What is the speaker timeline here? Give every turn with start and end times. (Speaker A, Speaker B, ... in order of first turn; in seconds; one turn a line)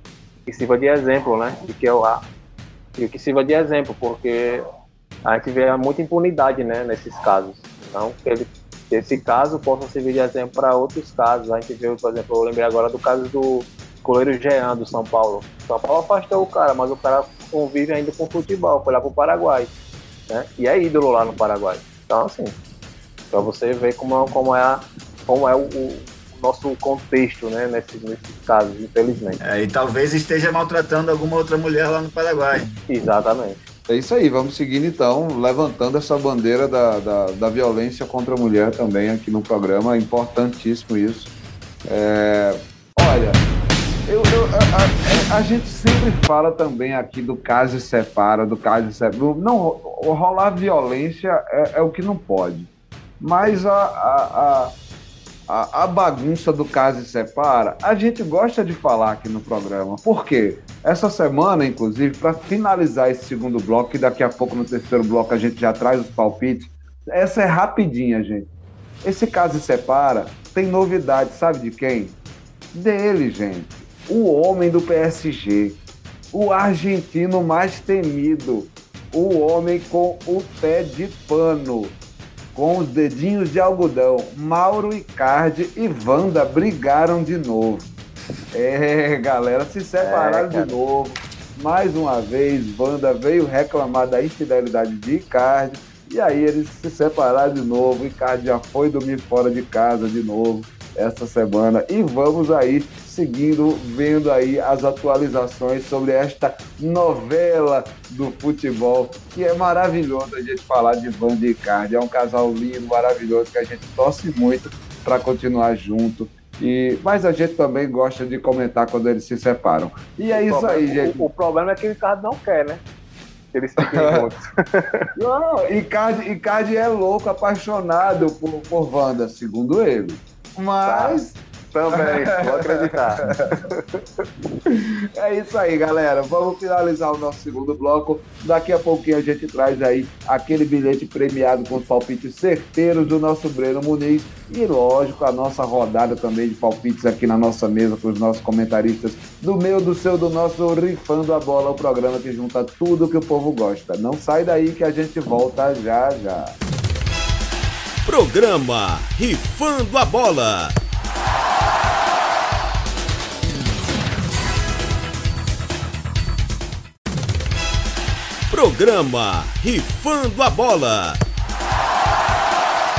Speaker A: 0.5-2.3
Speaker A: 3.0-4.7
Speaker A: 5.3-19.7
Speaker A: 20.3-22.6
Speaker A: 23.3-29.4
Speaker B: 29.4-32.8
Speaker A: 32.9-33.6
Speaker C: 33.9-41.3
Speaker C: 41.9-43.5
Speaker C: 44.1-52.7
Speaker C: 53.2-54.7
Speaker C: 55.5-68.5
Speaker C: 69.0-72.2
Speaker C: 72.7-75.8
Speaker C: 76.3-82.0
Speaker C: 82.5-87.9
Speaker C: 88.5-121.3
Speaker A: 90.0-90.8
Speaker A: 120.3-122.8
Speaker A: 123.5-125.1
Speaker C: 124.0-124.2
Speaker C: 125.2-131.4
Speaker A: 130.8-134.2
Speaker C: 131.9-133.6
Speaker C: 134.7-156.6
Speaker D: 158.1-160.8
Speaker D: 168.5-171.2